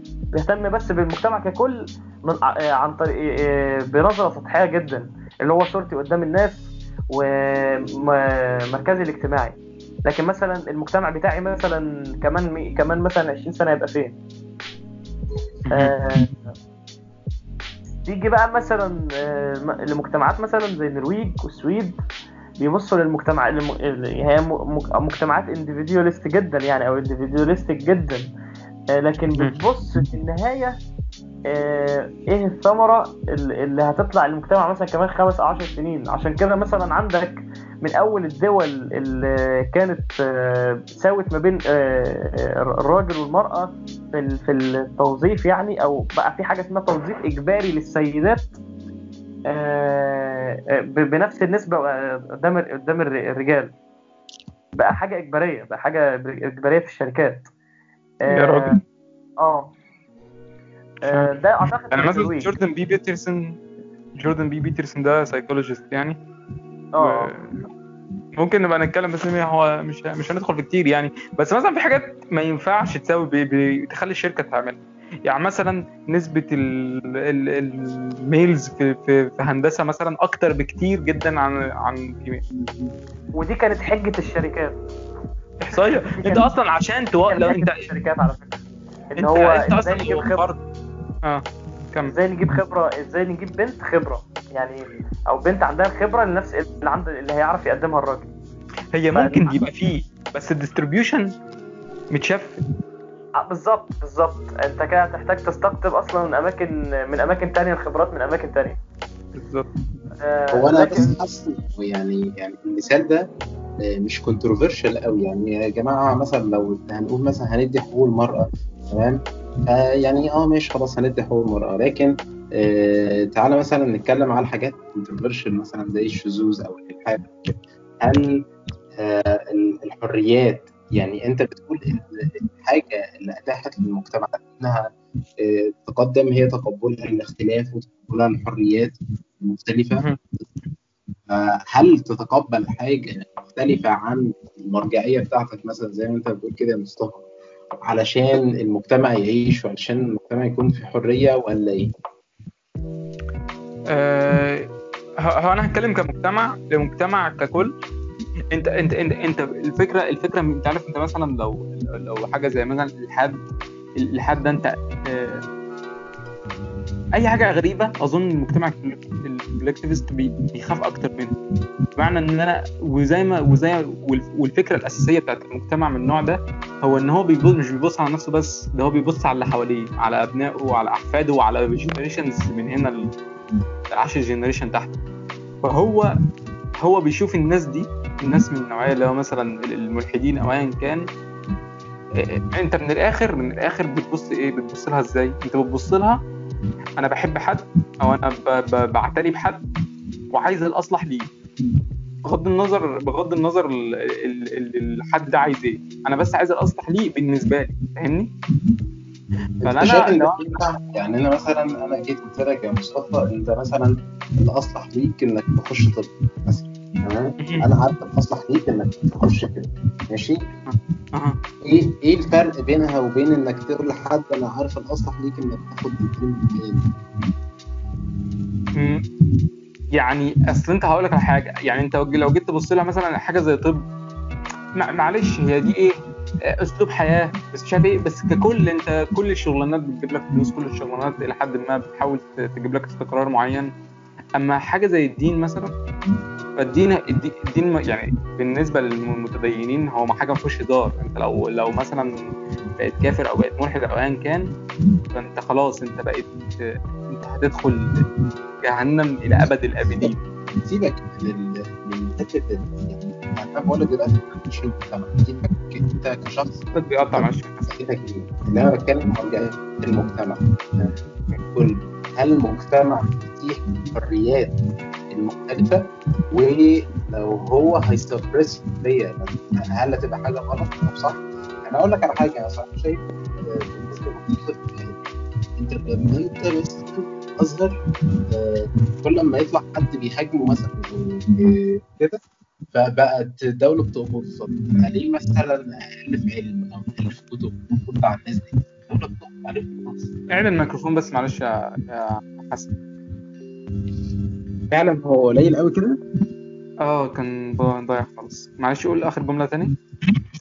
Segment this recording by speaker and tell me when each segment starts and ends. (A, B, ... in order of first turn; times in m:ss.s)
0:00.3-0:14.2 A
0:15.6-0:15.9 B
0:15.7-0:16.3 A
0:18.0-0:22.0 A
0:22.6-0:28.3 A
0:29.0-0:30.8 A
0:31.5-0:48.5 A
0:49.5-0:53.7 A
0:54.8-0:57.4 A
0:58.3-0:58.8 A
0:58.3-0:58.8 B
0:59.4-0:59.7 A
1:01.0-1:02.5 A
1:01.1-1:01.4 B
1:01.9-1:03.6 B
1:04.2-1:06.2 B
1:07.0-1:07.3 A
1:07.0-1:07.5 B
1:08.4-1:22.4 B
1:23.3-1:24.8 A
1:25.6-1:27.9 B
1:25.7-1:26.5 A
1:27.3-1:28.6 A
1:29.1-1:30.4 A
1:29.2-1:30.6 B
1:31.2-1:32.1 B
1:32.1-1:38.3 A
1:38.9-1:41.3 B
1:39.1-1:39.7 A
1:42.1-1:42.6 B
1:43.4-1:48.8 A
1:49.4-1:49.7 B
1:50.2-1:51.1 A
1:50.5-1:53.3 C
1:53.8-2:08.3 C
2:09.0-2:14.9 C
2:15.4-2:20.0 C
2:21.3-2:27.2 C
2:27.8-2:31.9 C
2:33.9-2:34.7 B
2:35.2-2:37.7 B
2:38.5-2:43.4 B
2:44.0-2:45.4 B
2:47.1-2:51.3 B
2:52.0-3:03.1 B
3:03.9-3:04.9 B
3:05.6-3:06.0 B
3:06.8-3:11.1 B
3:12.2-3:16.2 B
3:17.0-3:19.6 B
3:20.3-3:21.3 B
3:22.2-3:28.3 B
3:29.6-3:40.4 C
3:29.6-3:30.5 B
3:40.7-3:41.4 B
3:41.6-3:46.9 C
3:48.8-3:49.0 B
3:50.0-3:53.8 B
3:54.8-3:55.9 B
3:56.6-4:03.7 B
4:04.4-4:05.7 B
4:06.6-4:12.1 B
4:12.8-4:14.5 B
4:15.1-4:16.3 B
4:17.1-4:18.0 B
4:18.6-4:20.2 B
4:19.3-4:20.1 C
4:20.6-4:34.5 C
4:26.7-4:27.6 B
4:35.1-4:45.0 C
4:45.6-4:47.7 C
4:48.3-4:52.2 C
4:52.7-5:00.1 C
5:00.3-5:02.7 B
5:04.7-5:06.0 C
5:06.8-5:09.7 B